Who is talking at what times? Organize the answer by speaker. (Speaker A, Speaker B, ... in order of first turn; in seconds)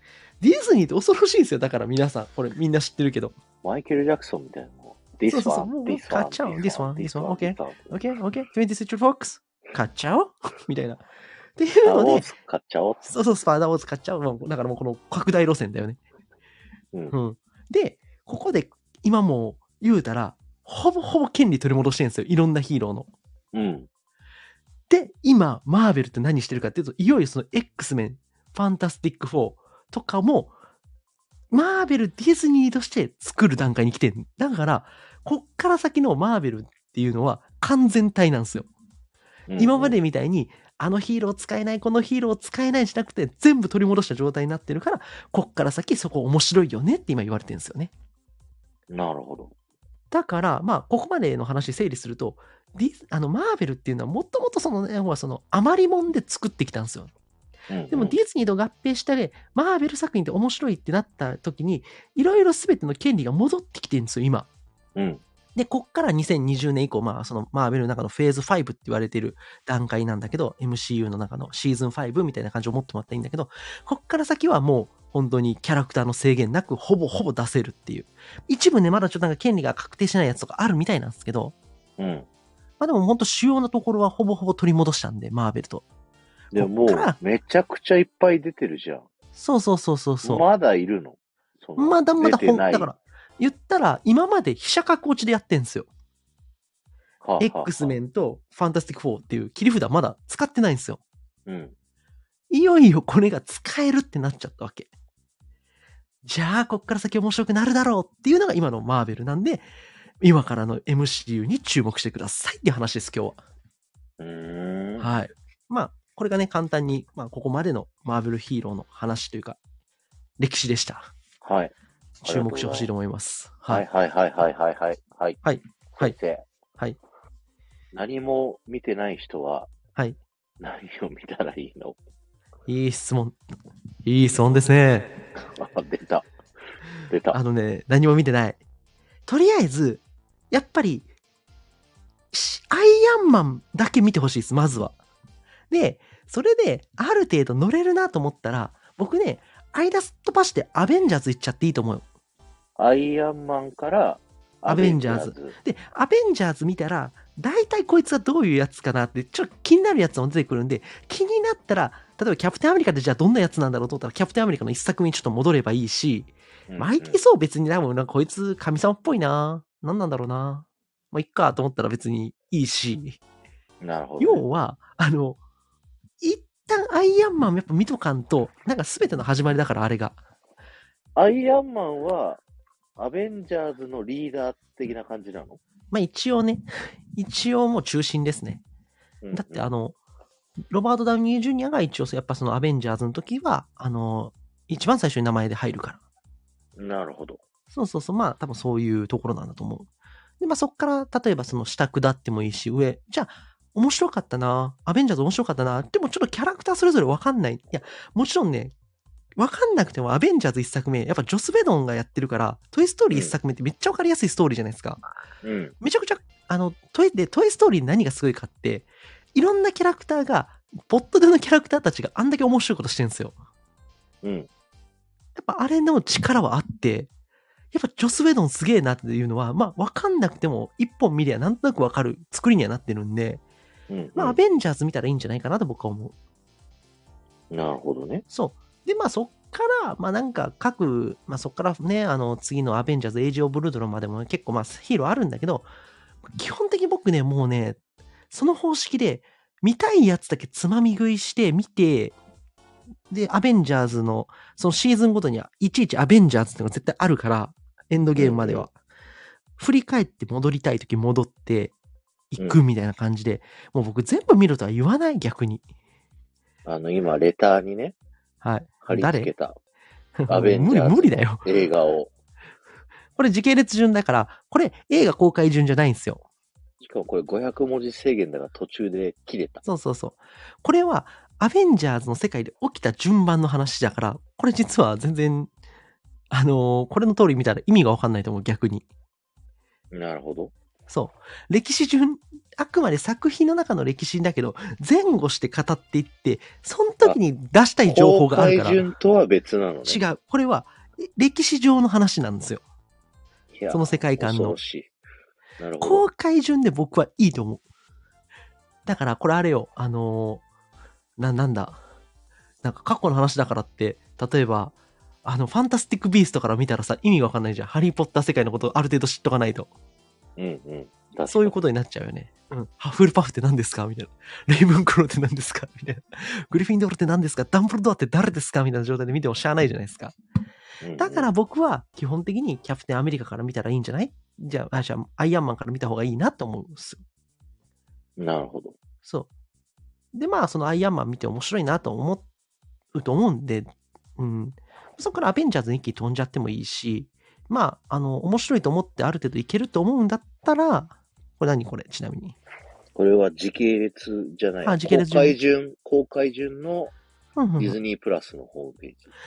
Speaker A: 0.4-3.3, 5.3-11.0, 11.6-12.3, 13.0-16.0, 17.1-23.1, 24.9-30.5, 31.5-38.7, 39.6-47.9, 50.1-57.1, 57.9-64.5, 65.5-81.5, 82.8-85.8, 86.5-87.2, 89.3-90.4, 91.8-95.9, 97.4-101.0, 102.5-104.9, 106.2-109.6, 110.2-113.4, 115.0-119.6, 120.4-121.1, 122.2-123.8, 125.4-126.1, 132.7-133.4, 134.0-135.1, 137.3-138.6, 139.3-141.1, 142.3-145.0, 145.7-152.0, 154.7-173.2, 174.2-175.4, 176.2-180.2, 185.9-188.6, 189.3-189.9, 190.7-196.0, 197.7-199.9, 200.4-208.7, 209.4-215.0, 215.8-223.3, 225.3-227.1, 227.7-233.4, 234.1-236.1, 238.3-245.7, 246.3-247.8, 248.3-252.2, 253.1-258.7, 259.6-261.7, 262.3-265.6, 268.4-269.3, 270.2-271.6, 273.1-276.2, 279.6-285.5, 286.3-288.9, 290.9-298.8, 299.9-302.6, 303.7-304.6, 305.8-307.6, 308.9-310.4, 311.2-311.8, 312.6-314.7, 315.2-319.7, 321.3-330.1, 331.0-337.0, 339.0-339.3, 340.1-342.2, 342.9-352.4, 354.6-355.4, 357.4-357.8
Speaker B: 3.6-8.0, 11.8-13.1, 23.5-23.9, 39.5-40.0, 48.9-49.5, 57.7-58.2, 65.0-65.2, 82.0-82.3, 86.5-89.1, 90.2-92.9, 97.2-98.0, 101.5-101.7, 114.2-115.1, 121.4-121.7, 122.2-122.9, 123.7-125.4, 125.9-126.4, 127.9-129.7, 130.6-131.9, 135.3-136.3, 137.1-137.4, 152.8-155.5, 166.7-167.2, 173.8-174.4, 181.2-182.4, 183.0-185.6, 189.2-189.7, 196.8-197.4, 215.4-215.7, 224.2-224.5, 233.9-234.4, 237.5-238.2, 258.1-258.7, 266.6-267.9, 268.8-269.5, 270.3-272.1, 276.8-279.6, 289.9-290.5, 297.9-300.0, 303.5-304.9, 305.6-306.1, 320.4-321.6, 330.8-331.3, 338.2-338.8, 352.9-356.9, 357.6-359.1